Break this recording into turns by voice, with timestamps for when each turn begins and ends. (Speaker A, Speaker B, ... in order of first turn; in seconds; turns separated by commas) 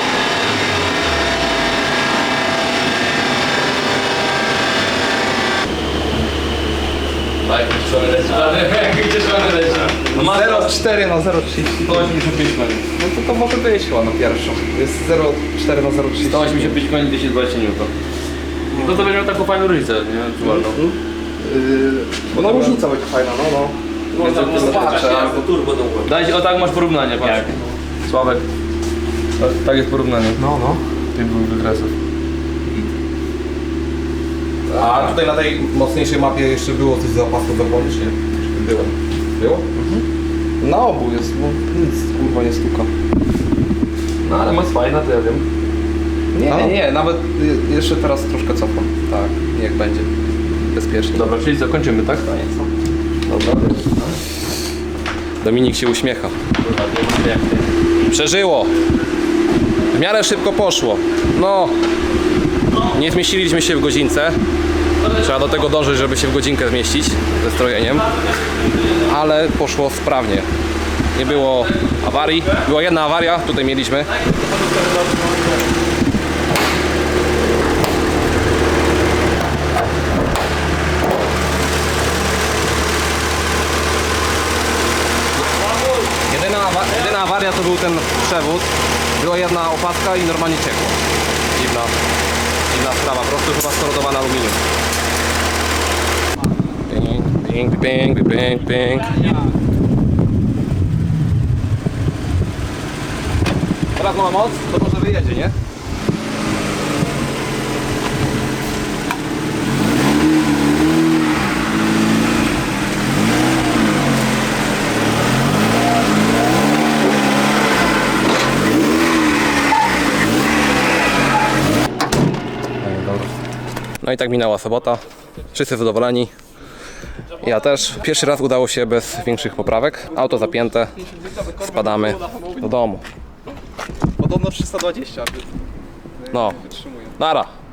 Speaker A: 7.4-10.8, Speaker B: 10.0-12.1, Speaker A: 11.8-12.8, Speaker B: 13.0-16.8, Speaker A: 16.2-17.9, Speaker B: 18.7-19.1, Speaker A: 18.7-20.8, Speaker B: 20.4-25.5, Speaker A: 22.3-22.8, Speaker C: 24.1-26.1, Speaker A: 24.1-25.2, Speaker A: 26.0-27.5, Speaker B: 27.2-27.8, Speaker A: 28.1-28.4, Speaker A: 29.4-30.4, Speaker B: 30.4-30.8, Speaker A: 31.1-31.9, Speaker D: 34.7-39.7, Speaker B: 39.8-40.0, Speaker B: 40.6-42.9, Speaker A: 44.2-45.4, Speaker B: 46.3-51.3, Speaker D: 46.5-46.8, Speaker A: 51.1-52.7, Speaker A: 53.2-54.2, Speaker D: 55.4-56.4, Speaker C: 56.6-57.7, Speaker D: 58.0-58.7, Speaker D: 59.9-61.7, Speaker D: 62.9-64.4, Speaker A: 65.0-65.9, Speaker D: 65.1-68.1, Speaker A: 67.8-69.2, Speaker D: 69.0-70.5, Speaker D: 71.1-74.1, Speaker A: 71.2-72.7, Speaker A: 74.0-75.7, Speaker A: 85.5-86.1, Speaker D: 86.3-91.0, Speaker D: 91.5-92.0, Speaker D: 92.7-94.6, Speaker D: 96.9-99.3, Speaker D: 103.9-105.5, Speaker D: 122.8-123.3, Speaker D: 124.0-126.3, Speaker D: 127.4-131.0, Speaker B: 131.0-132.7, Speaker D: 131.6-133.0, Speaker B: 134.2-135.5, Speaker B: 136.2-137.2, Speaker D: 136.3-136.6, Speaker D: 137.2-137.5